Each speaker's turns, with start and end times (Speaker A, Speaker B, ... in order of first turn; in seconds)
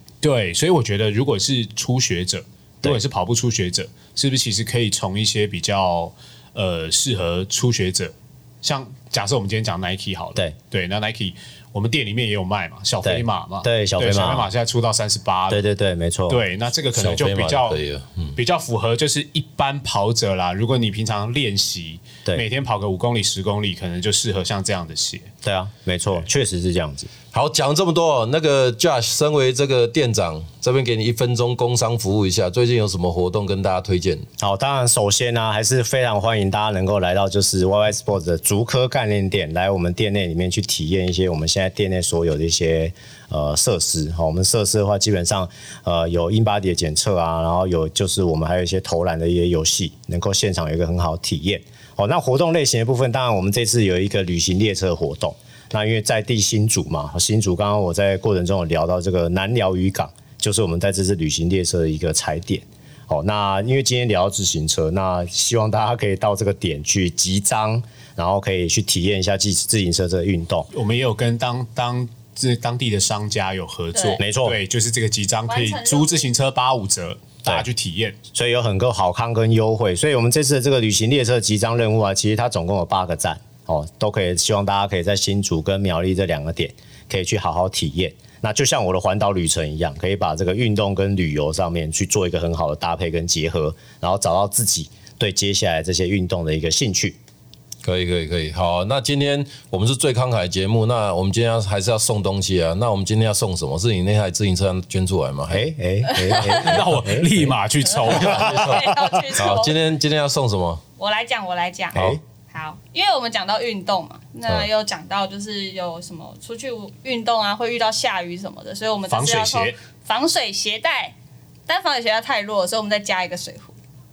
Speaker A: 0.2-15.6, 16.3-17.8, 18.4-25.3, 70.7-78.2, 106.4-109.0, 119.1-119.8
Speaker B: 13.0-14.5, 15.5-16.4, 25.4-27.1, 34.4-70.7, 74.2-74.6, 78.3-97.2, 105.5-107.5, 111.9-112.2
Speaker C: 16.9-18.4, 27.3-34.3, 97.8-105.7, 108.1-110.8
Speaker D: 73.9-74.2, 75.5-76.3, 108.1-109.9, 111.0-121.1, 121.7-123.7